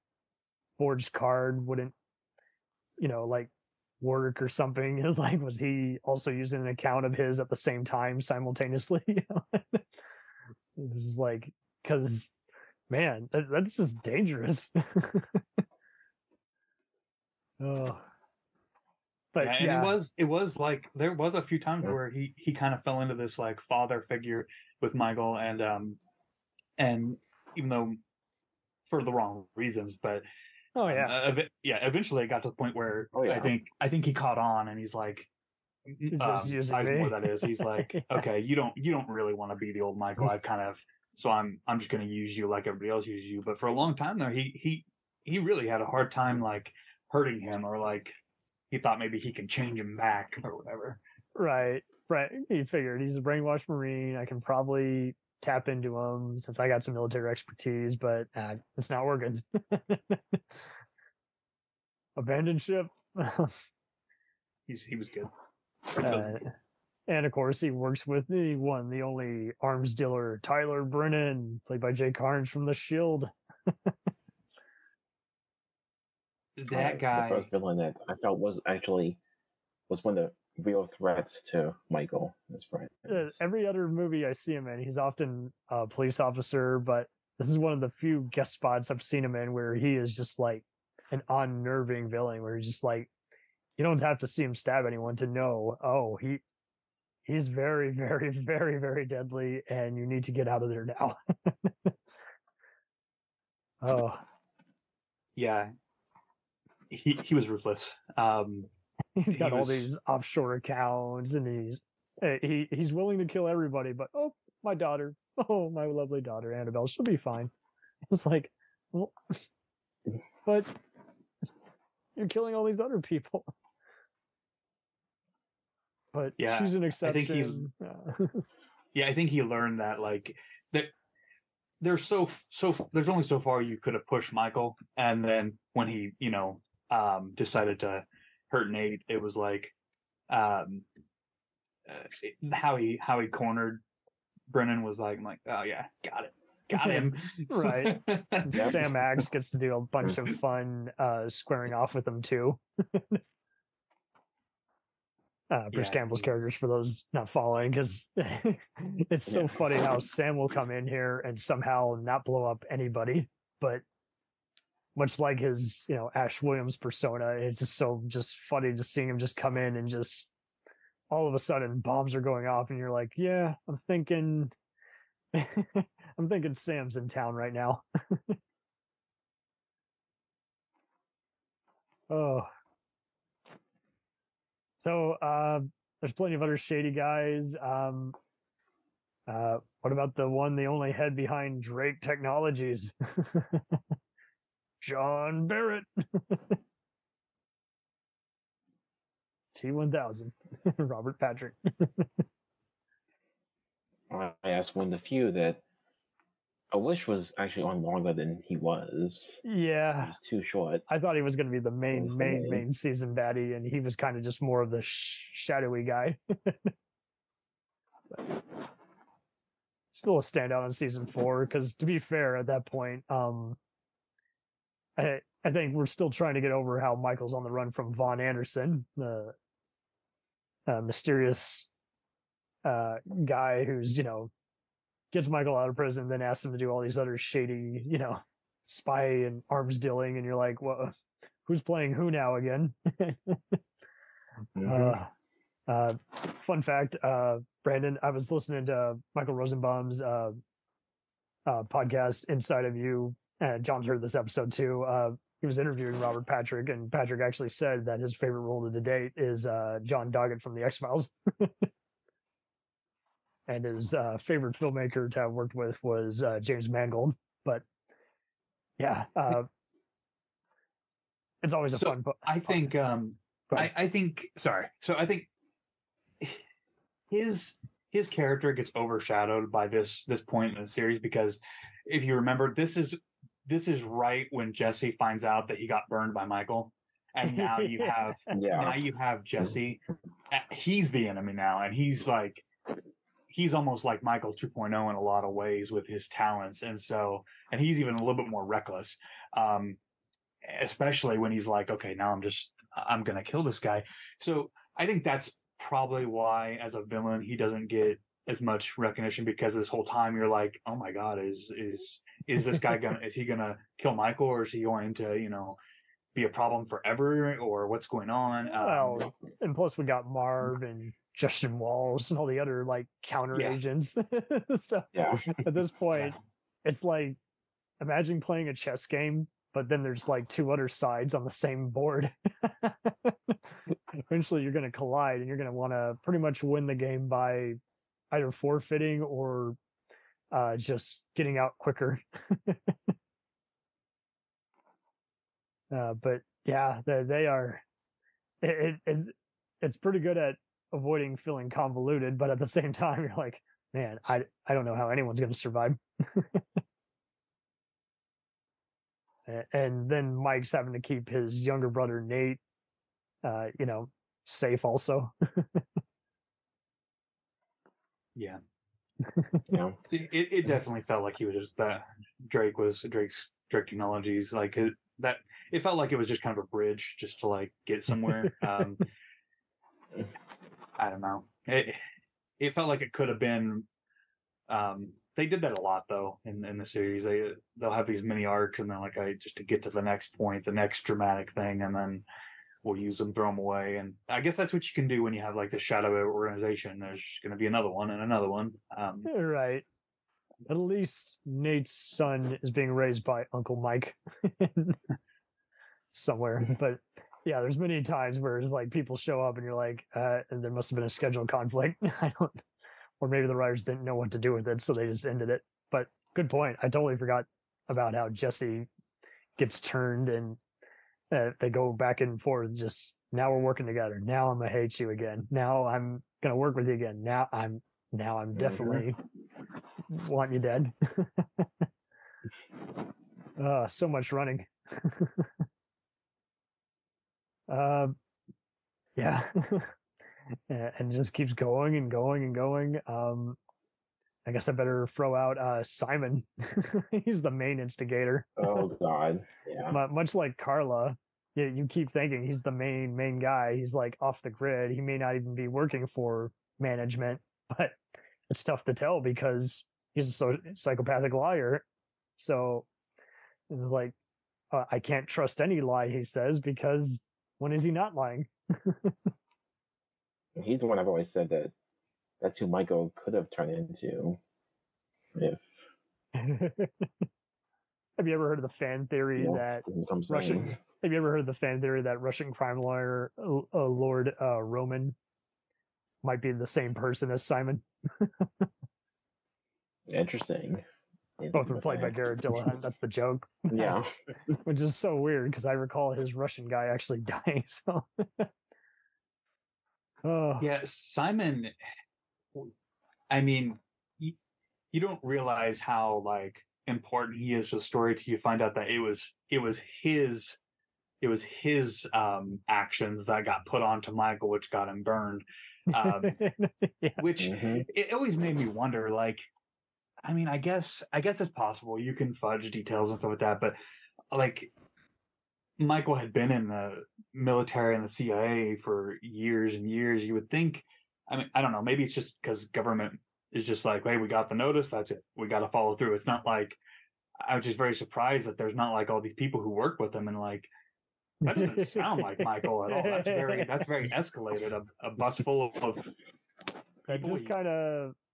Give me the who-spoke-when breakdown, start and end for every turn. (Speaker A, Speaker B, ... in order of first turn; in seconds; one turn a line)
Speaker A: 0.8-1.9
Speaker A: 3.0-3.5
Speaker A: 4.0-9.8
Speaker A: 10.8-12.3
Speaker A: 12.9-15.4
Speaker A: 17.6-18.0
Speaker A: 19.3-19.9
Speaker B: 19.4-26.0
Speaker B: 26.8-28.0
Speaker B: 28.9-30.2
Speaker A: 30.8-31.1
Speaker B: 30.8-35.3
Speaker C: 33.1-33.5
Speaker B: 35.9-48.2
Speaker A: 36.1-38.2
Speaker B: 48.7-51.0
Speaker A: 51.4-60.6
Speaker A: 62.2-63.6
Speaker B: 64.7-65.3
Speaker B: 65.9-66.4
Speaker A: 66.0-66.5
Speaker A: 67.1-73.9
Speaker B: 76.5-77.5
Speaker C: 76.7-79.2
Speaker C: 79.9-83.4
Speaker A: 83.1-93.1
Speaker A: 93.8-96.4
Speaker A: 97.2-101.9
Speaker A: 103.8-104.2
Speaker B: 105.3-105.7
Speaker B: 106.9-108.7
Speaker A: 109.2-117.5
Speaker B: 109.3-109.9
Speaker A: 118.1-119.4
Speaker A: 120.5-120.7
Speaker A: 122.2-123.5
Speaker A: 126.1-128.4
Speaker B: 126.4-127.7
Speaker B: 128.9-130.9
Speaker B: 131.8-139.7
Speaker B: 140.3-140.8
Speaker B: 141.9-143.8
Speaker B: 144.5-148.7
Speaker A: 146.7-153.2
Speaker C: 148.5-148.8
Speaker A: 155.5-163.8
Speaker B: 155.7-156.5
Speaker C: 159.3-159.6
Speaker A: 164.9-170.3
Speaker A: 171.1-174.5
Speaker A: 175.3-178.4
Speaker A: 182.1-182.5
Speaker A: 184.8-188.2
Speaker A: 189.3-193.8
Speaker A: 194.8-196.6
Speaker A: 199.5-202.2
Speaker C: 204.1-205.6
Speaker C: 206.7-209.4
Speaker A: 209.4-210.1
Speaker C: 210.0-210.8
Speaker A: 210.9-216.7
Speaker C: 211.9-212.6
Speaker A: 219.9-223.6
Speaker A: 225.0-229.3
Speaker A: 230.7-231.7
Speaker A: 232.6-234.3
Speaker A: 235.1-243.6
Speaker C: 244.6-245.0
Speaker A: 244.6-245.1
Speaker A: 245.7-250.4
Speaker A: 251.4-261.7
Speaker A: 263.5-267.6
Speaker A: 268.8-269.5
Speaker A: 271.4-272.7
Speaker B: 271.7-275.3
Speaker B: 277.1-292.4
Speaker A: 287.2-288.3
Speaker C: 288.3-288.8
Speaker B: 293.3-299.8
Speaker B: 300.4-315.6
Speaker B: 316.1-319.1
Speaker A: 318.6-327.2
Speaker B: 323.3-323.6
Speaker C: 324.9-325.4
Speaker A: 327.8-337.6
Speaker A: 338.1-339.6
Speaker A: 340.3-342.9
Speaker A: 345.7-347.6
Speaker A: 348.4-356.4
Speaker A: 359.3-362.4
Speaker A: 363.2-365.6
Speaker C: 369.5-369.8
Speaker B: 369.9-378.8
Speaker B: 380.8-381.8
Speaker B: 382.4-383.7
Speaker B: 384.5-392.0
Speaker B: 392.6-399.1
Speaker A: 399.1-399.6
Speaker A: 400.5-404.8
Speaker A: 405.9-412.4
Speaker A: 413.0-418.7
Speaker A: 419.4-420.4
Speaker A: 421.1-429.0
Speaker C: 428.3-428.8
Speaker A: 429.9-431.6
Speaker A: 433.4-435.3
Speaker A: 437.5-437.9
Speaker A: 439.0-439.7
Speaker A: 440.5-443.4
Speaker A: 444.2-448.6
Speaker C: 448.4-449.8
Speaker A: 449.7-457.8
Speaker A: 458.3-461.6
Speaker A: 462.2-462.6
Speaker A: 463.5-463.9
Speaker A: 464.5-468.9
Speaker C: 470.4-471.5
Speaker C: 472.2-474.2
Speaker C: 475.1-475.7
Speaker A: 476.1-476.9
Speaker A: 478.0-484.9
Speaker C: 479.1-480.6
Speaker A: 486.0-488.5
Speaker C: 489.9-490.6
Speaker C: 491.2-492.5
Speaker A: 491.3-493.8
Speaker C: 493.5-494.3
Speaker A: 494.4-498.3
Speaker A: 500.0-500.4
Speaker B: 500.4-501.5
Speaker B: 503.1-504.1
Speaker B: 504.7-510.4
Speaker B: 511.0-516.1
Speaker A: 515.7-517.0
Speaker B: 517.0-519.3
Speaker C: 517.1-517.6
Speaker B: 520.0-523.5
Speaker B: 524.1-524.5
Speaker B: 525.6-536.6
Speaker B: 537.2-540.5
Speaker A: 541.2-543.6
Speaker B: 541.2-545.9
Speaker B: 546.9-547.3
Speaker A: 546.9-547.9